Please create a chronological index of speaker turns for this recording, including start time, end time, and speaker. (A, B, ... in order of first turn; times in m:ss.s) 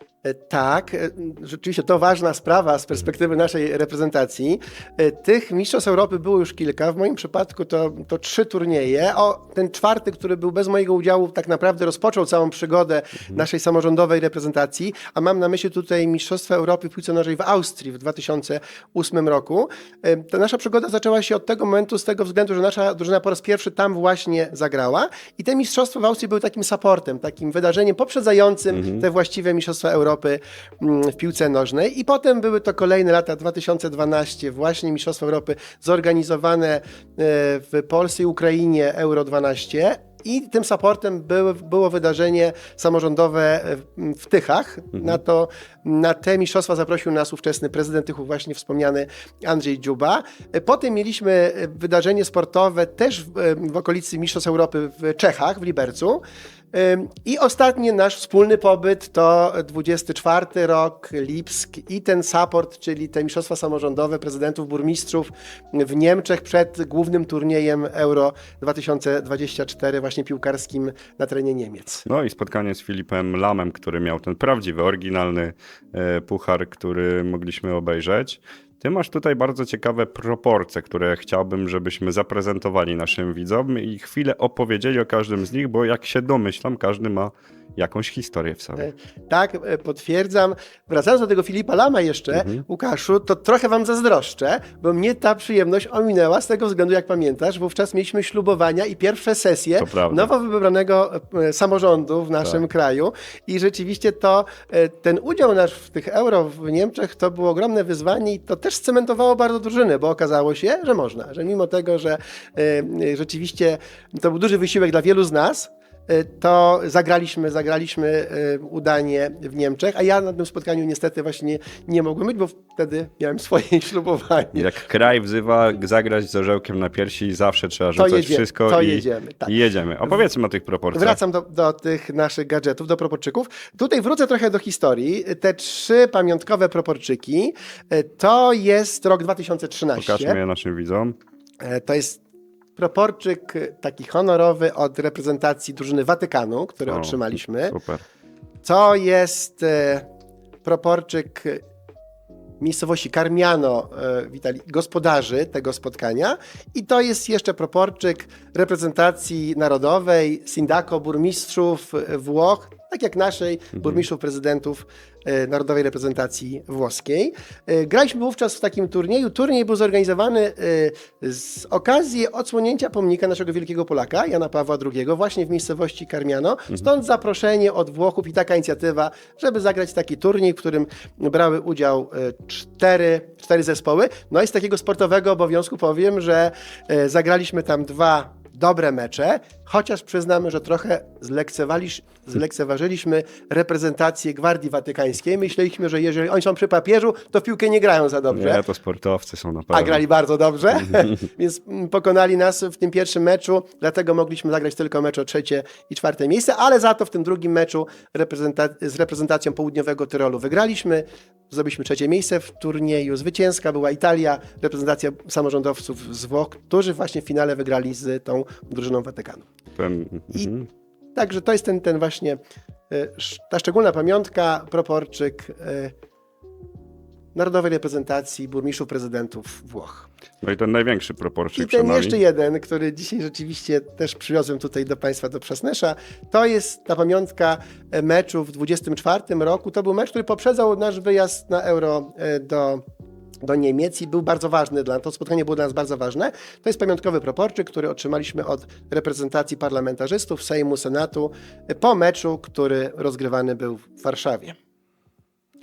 0:00.2-1:12.0 A
0:28.8-0:29.0 B
1:12.1-1:28.9 B
1:28.8-2:04.7 A
1:32.3-1:32.6 B
1:39.8-1:40.3 B
2:04.5-2:11.2 B
2:08.0-2:09.6 A
2:10.9-2:20.4 A
2:20.0-2:21.2 B
2:21.6-2:22.2 A
2:22.8-2:27.8 A
2:26.9-2:28.0 B
2:28.6-2:30.1 A
2:30.6-2:31.6 A
2:32.6-3:18.6 A
3:18.3-3:20.0 B
3:19.7-3:39.5 A
3:39.8-3:40.7 B
3:41.2-3:42.4 A
3:42.9-3:45.9 A
3:47.4-3:50.1 A
3:50.4-3:52.2 B
3:51.6-4:02.8 A
4:03.4-4:14.6 A